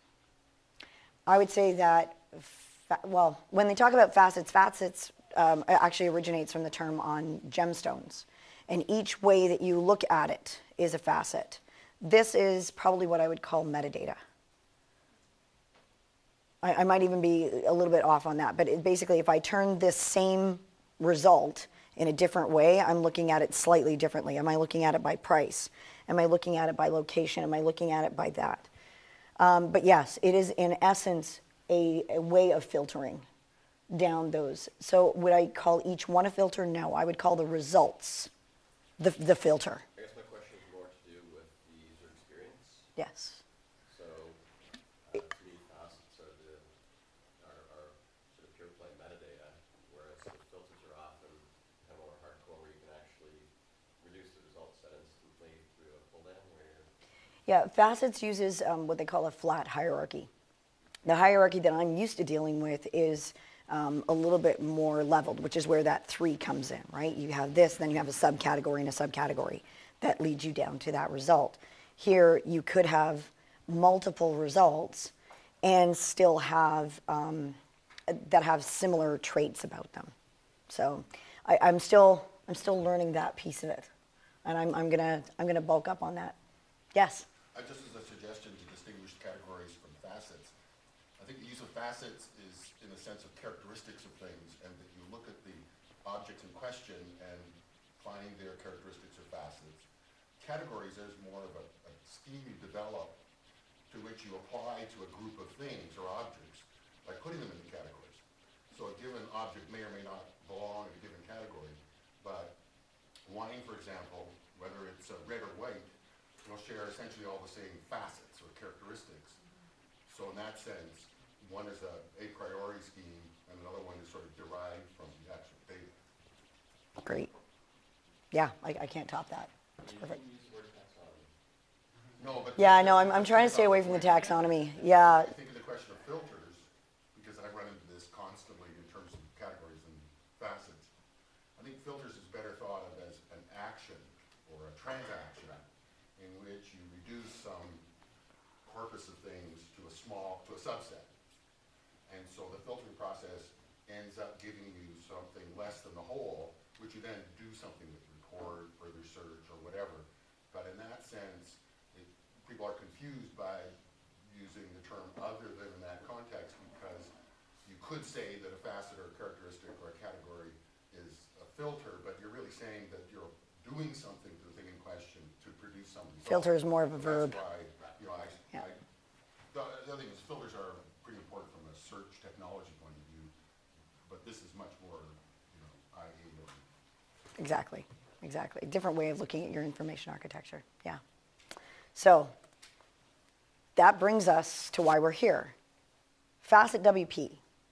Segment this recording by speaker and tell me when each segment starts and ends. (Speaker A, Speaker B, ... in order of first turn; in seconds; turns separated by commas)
Speaker A: 1.3-14.2, Speaker A: 16.6-28.7, Speaker A: 29.4-33.2, Speaker A: 33.9-38.3, Speaker A: 39.0-39.8, Speaker B: 40.0-42.9, Speaker A: 43.0-43.4, Speaker B: 43.9-44.4, Speaker B: 45.0-46.7, Speaker B: 47.4-56.9, Speaker A: 57.5-60.3, Speaker A: 61.0-77.5, Speaker A: 78.1-80.1, Speaker A: 80.7-83.9, Speaker A: 84.4-86.3, Speaker A: 86.9-87.2, Speaker C: 87.5-90.5, Speaker C: 91.2-99.8, Speaker C: 100.4-103.2, Speaker C: 103.9-112.6, Speaker C: 113.2-115.9, Speaker C: 116.4-119.4, Speaker C: 120.1-125.9, Speaker A: 127.0-127.3, Speaker A: 128.3-130.1, Speaker B: 129.8-131.3, Speaker C: 132.2-140.9, Speaker B: 132.2-132.8, Speaker A: 132.6-135.3, Speaker C: 141.6-147.8, Speaker C: 148.6-151.1, Speaker C: 152.1-163.7, Speaker C: 164.3-167.1, Speaker C: 167.6-178.8, Speaker A: 176.2-177.4, Speaker C: 179.5-183.3, Speaker C: 184.0-186.6, Speaker A: 187.4-191.0, Speaker A: 191.9-192.3, Speaker A: 193.8-195.5, Speaker A: 196.4-197.4